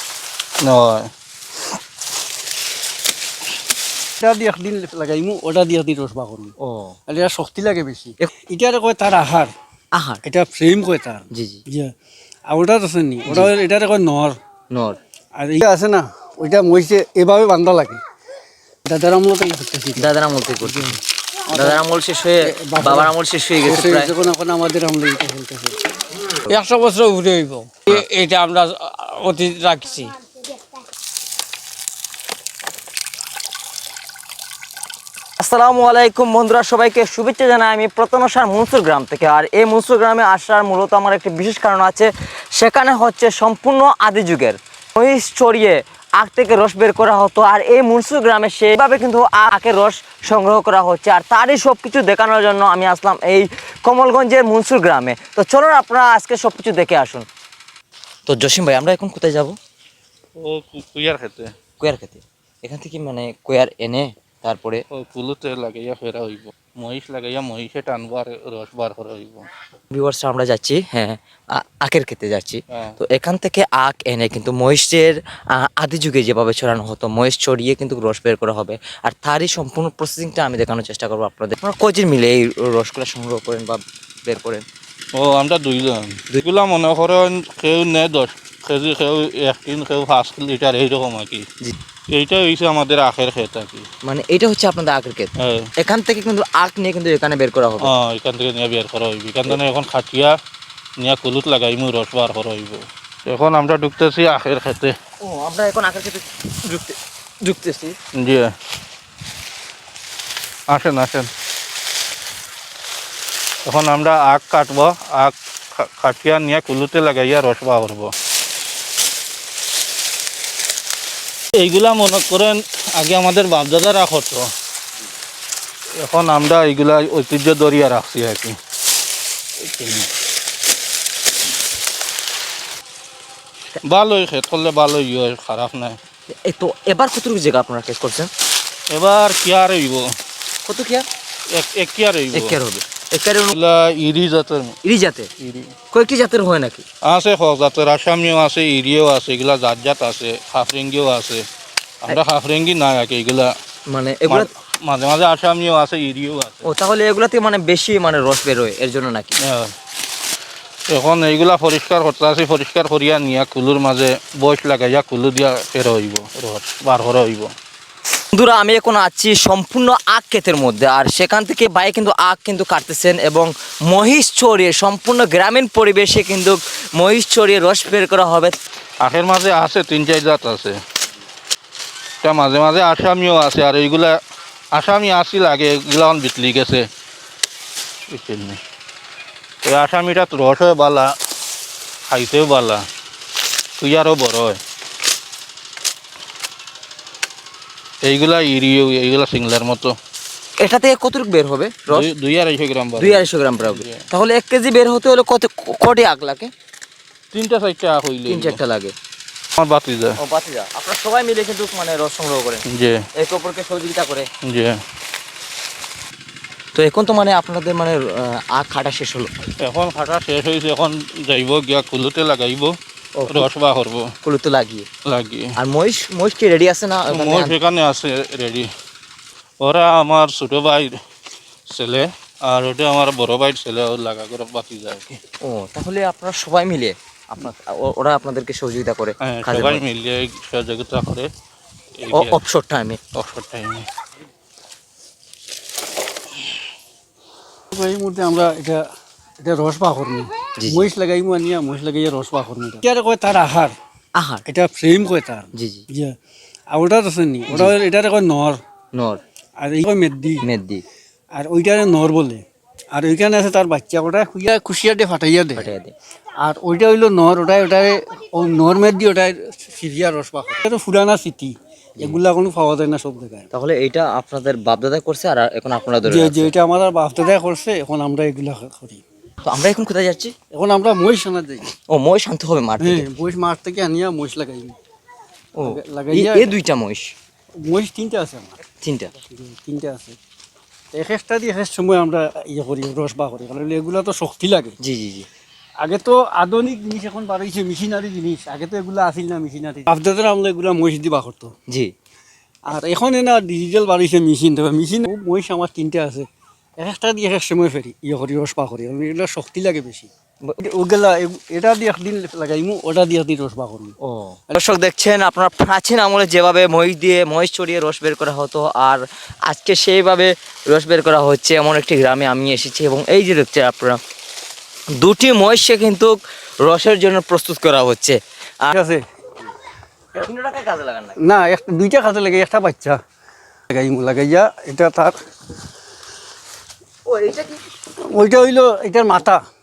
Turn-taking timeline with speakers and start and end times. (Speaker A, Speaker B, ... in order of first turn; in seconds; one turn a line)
Speaker A: 0.6-1.1
Speaker B: 4.2-6.5
Speaker C: 6.6-7.0
Speaker B: 7.1-9.5
Speaker C: 9.9-10.2
Speaker B: 10.2-11.9
Speaker C: 11.3-11.6
Speaker B: 12.5-14.4
Speaker C: 14.7-15.0
Speaker B: 15.4-18.0
Speaker B: 18.9-20.1
Speaker C: 19.9-24.1
Speaker B: 20.6-21.0
Speaker B: 21.5-21.8
Speaker B: 22.4-23.1
Speaker B: 23.6-25.7
Speaker D: 26.5-30.1
Speaker C: 35.4-57.3
Speaker C: 58.3-59.5
Speaker A: 60.4-61.5
Speaker C: 61.8-64.8
Speaker A: 64.9-69.5
Speaker C: 69.9-84.6
Speaker A: 85.1-91.5
Speaker A: 92.1-93.9
Speaker C: 94.0-97.9
Speaker A: 95.4-95.7
Speaker A: 97.8-100.3
Speaker A: 101.0-104.9
Speaker C: 105.2-108.0
Speaker A: 108.2-108.5
Speaker A: 110.7-111.3
Speaker A: 113.7-118.1
Speaker A: 121.6-124.5
Speaker A: 126.0-128.6
Speaker A: 129.7-130.1
Speaker A: 133.8-136.0
Speaker C: 136.4-138.3
Speaker A: 138.9-140.1
Speaker C: 140.7-141.1
Speaker A: 141.5-142.5
Speaker C: 142.3-143.6
Speaker A: 143.5-144.8
Speaker C: 144.8-145.3
Speaker A: 145.4-145.7
Speaker C: 145.9-146.8
Speaker A: 147.1-151.4
Speaker A: 152.0-153.5
Speaker C: 153.9-154.5
Speaker A: 154.3-156.7
Speaker C: 156.6-159.4
Speaker A: 159.5-159.7
Speaker A: 160.9-167.5
Speaker C: 168.3-178.6
Speaker A: 179.0-180.8
Speaker A: 182.2-184.2
Speaker A: 184.8-186.9
Speaker A: 188.1-188.6
Speaker A: 189.6-191.1
Speaker A: 192.1-192.8
Speaker A: 193.8-194.6
Speaker A: 198.1-199.9
Speaker C: 200.6-202.1
Speaker A: 201.9-204.1
Speaker C: 203.0-206.5
Speaker A: 207.3-208.6
Speaker C: 208.3-208.9
Speaker A: 209.6-210.2
Speaker C: 210.2-212.7
Speaker A: 212.7-213.0
Speaker C: 213.2-214.3
Speaker A: 214.4-214.8
Speaker C: 216.7-219.3
Speaker A: 219.6-222.8
Speaker C: 223.2-223.5
Speaker A: 223.3-224.1
Speaker C: 224.2-224.9
Speaker A: 225.1-225.5
Speaker C: 225.6-227.6
Speaker A: 227.1-228.7
Speaker A: 229.6-230.9
Speaker A: 231.7-235.2
Speaker C: 235.4-239.8
Speaker A: 239.2-241.3
Speaker A: 242.0-242.4
Speaker C: 242.1-243.0
Speaker A: 243.2-243.9
Speaker B: 247.7-248.8
Speaker B: 249.4-253.8
Speaker C: 250.6-250.9
Speaker C: 254.2-254.4
Speaker B: 254.5-256.1
Speaker C: 255.6-255.9
Speaker B: 256.7-258.6
Speaker C: 257.5-257.8
Speaker C: 258.9-259.2
Speaker B: 259.6-260.4
Speaker C: 260.4-260.8
Speaker B: 261.4-265.7
Speaker C: 265.6-265.9
Speaker B: 266.4-273.5
Speaker C: 273.5-276.5
Speaker B: 276.0-279.0
Speaker C: 279.4-280.4
Speaker B: 280.5-281.6
Speaker C: 281.8-283.1
Speaker B: 282.8-284.8
Speaker C: 285.6-287.1
Speaker B: 285.6-286.5
Speaker B: 287.6-288.6
Speaker C: 288.8-289.1
Speaker B: 289.3-290.2
Speaker B: 290.9-294.8
Speaker C: 294.8-295.3
Speaker B: 295.8-301.5
Speaker B: 302.7-306.3
Speaker B: 306.8-310.1
Speaker B: 310.6-313.9
Speaker C: 314.0-324.0
Speaker C: 324.9-328.7
Speaker B: 328.7-329.0
Speaker C: 330.2-331.2
Speaker B: 331.2-333.0
Speaker B: 333.7-335.2
Speaker C: 337.1-337.6
Speaker B: 338.1-339.4